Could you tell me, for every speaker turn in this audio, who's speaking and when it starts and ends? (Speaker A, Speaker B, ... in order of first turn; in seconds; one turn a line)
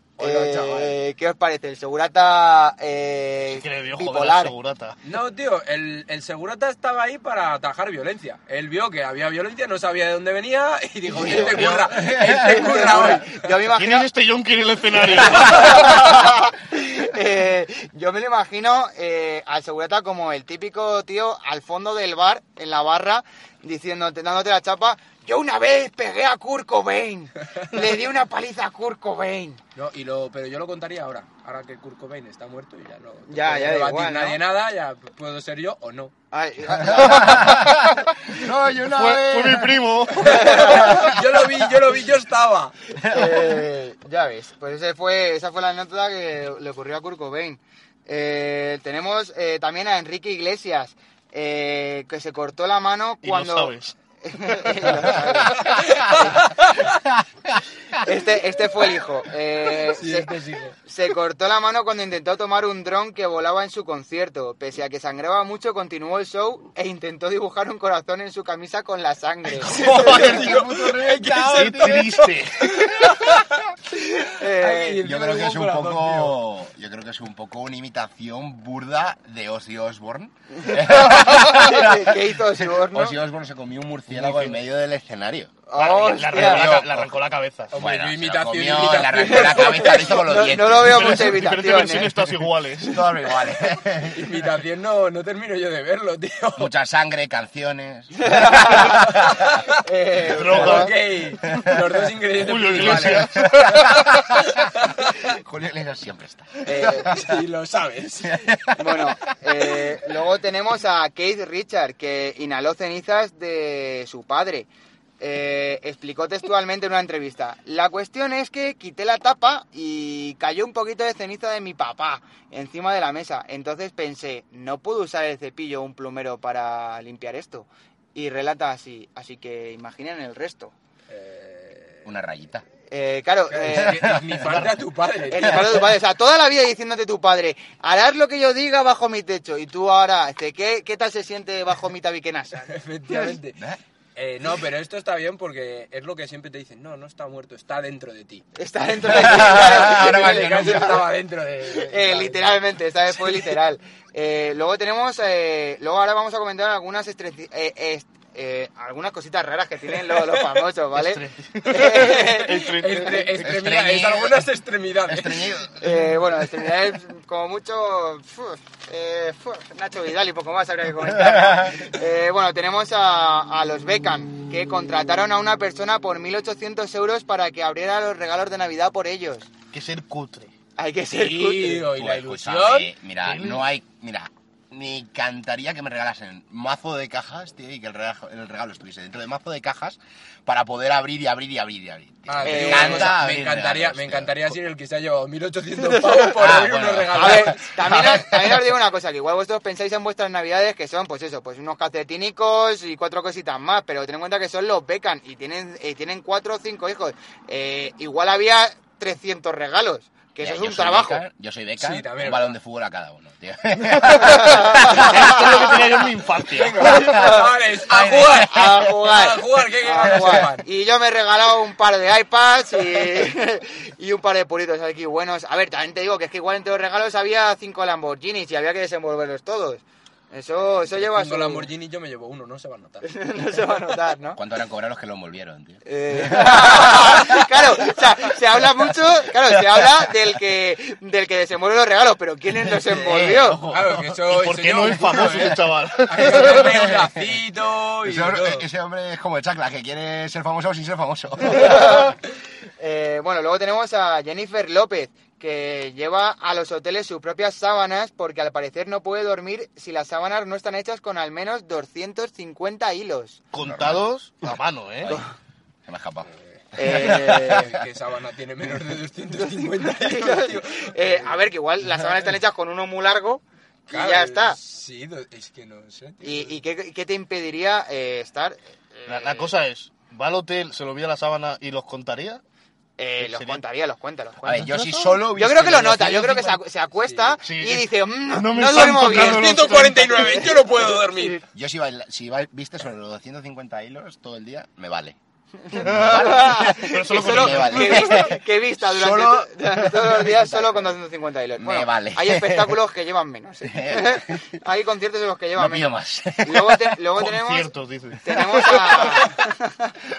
Speaker A: 0.2-0.9
Speaker B: 0.2-4.5
Speaker C: 3.5-5.0
Speaker A: 5.0-13.4
Speaker D: 11.1-13.1
Speaker B: 12.3-14.1
Speaker C: 13.7-16.2
Speaker B: 15.2-29.6
Speaker A: 29.8-36.1
Speaker B: 33.3-34.4
Speaker B: 36.3-37.7
Speaker D: 36.8-41.2
Speaker C: 37.2-37.9
Speaker C: 38.8-40.7
Speaker A: 40.2-42.7
Speaker B: 40.2-41.0
Speaker D: 43.0-43.5
Speaker B: 43.1-56.7
Speaker C: 53.2-55.4
Speaker A: 55.6-56.7
Speaker B: 58.0-60.3
Speaker A: 59.8-60.8
Speaker B: 60.8-70.5
Speaker D: 69.6-72.1
Speaker A: 69.6-73.6
Speaker C: 69.8-70.6
Speaker C: 71.5-73.0
Speaker B: 73.9-75.0
Speaker A: 74.4-76.3
Speaker D: 75.0-87.1
Speaker B: 80.6-83.2
Speaker C: 84.1-84.6
Speaker B: 85.7-86.8
Speaker C: 85.8-87.7
Speaker A: 87.7-90.3
Speaker D: 87.8-91.3
Speaker B: 89.2-92.2
Speaker C: 90.8-93.1
Speaker D: 92.8-94.2
Speaker A: 94.1-96.7
Speaker D: 96.6-99.5
Speaker B: 98.2-99.0
Speaker A: 98.7-99.5
Speaker B: 99.8-100.9
Speaker C: 100.2-101.0
Speaker A: 100.5-103.5
Speaker C: 102.3-104.2
Speaker D: 102.8-107.4
Speaker A: 104.4-105.1
Speaker B: 106.6-107.1
Speaker A: 106.8-108.5
Speaker D: 108.2-109.0
Speaker B: 108.8-114.7
Speaker B: 115.2-130.7
Speaker A: 131.1-132.0
Speaker D: 132.0-132.6
Speaker B: 132.9-134.0
Speaker A: 133.5-135.8
Speaker D: 133.6-134.7
Speaker B: 135.3-143.3
Speaker A: 142.7-143.6
Speaker A: 144.2-148.4
Speaker B: 148.6-151.1
Speaker D: 149.0-151.0
Speaker A: 149.3-152.6
Speaker B: 151.7-163.2
Speaker C: 160.9-163.4
Speaker A: 162.4-165.6
Speaker D: 163.4-164.4
Speaker D: 165.1-165.9
Speaker B: 165.8-179.5
Speaker D: 171.2-171.8
Speaker C: 179.7-180.5
Speaker B: 180.8-181.9
Speaker A: 181.1-182.9
Speaker D: 181.9-194.4
Speaker C: 183.2-183.7
Speaker A: 192.3-197.7
Speaker B: 192.4-193.2
Speaker B: 195.8-196.3
Speaker D: 196.3-198.5
Speaker B: 197.1-211.2
Speaker D: 210.4-215.5
Speaker A: 211.8-212.6
Speaker C: 213.8-217.1
Speaker B: 214.2-215.5
Speaker A: 216.5-220.6
Speaker B: 216.9-217.5
Speaker D: 216.9-218.8
Speaker B: 218.4-231.7
Speaker D: 220.1-220.4
Speaker A: 230.9-233.1
Speaker B: 233.0-234.4
Speaker D: 234.3-237.4
Speaker B: 235.8-243.6
Speaker D: 242.9-244.0
Speaker C: 243.1-246.9
Speaker A: 243.7-248.7
Speaker D: 246.2-247.4
Speaker D: 248.0-252.1
Speaker B: 251.4-252.2
Speaker B: 252.8-263.4
Speaker C: 263.5-265.2
Speaker D: 263.6-264.0
Speaker D: 265.9-267.7
Speaker A: 266.3-271.4
Speaker B: 266.8-267.7
Speaker B: 269.6-274.6
Speaker A: 273.9-276.6
Speaker B: 276.2-279.5
Speaker C: 279.1-282.4
Speaker B: 283.0-284.7
Speaker C: 283.2-283.6
Speaker C: 284.4-285.3
Speaker D: 284.4-286.6
Speaker B: 285.3-289.8
Speaker A: 287.0-287.4
Speaker C: 287.4-290.4
Speaker A: 288.8-291.4
Speaker D: 291.5-295.1
Speaker B: 295.6-309.9
Speaker C: 295.7-298.2
Speaker D: 295.8-300.9
Speaker D: 301.6-302.8
Speaker D: 303.6-304.4
Speaker D: 305.5-306.9
Speaker C: 307.1-309.2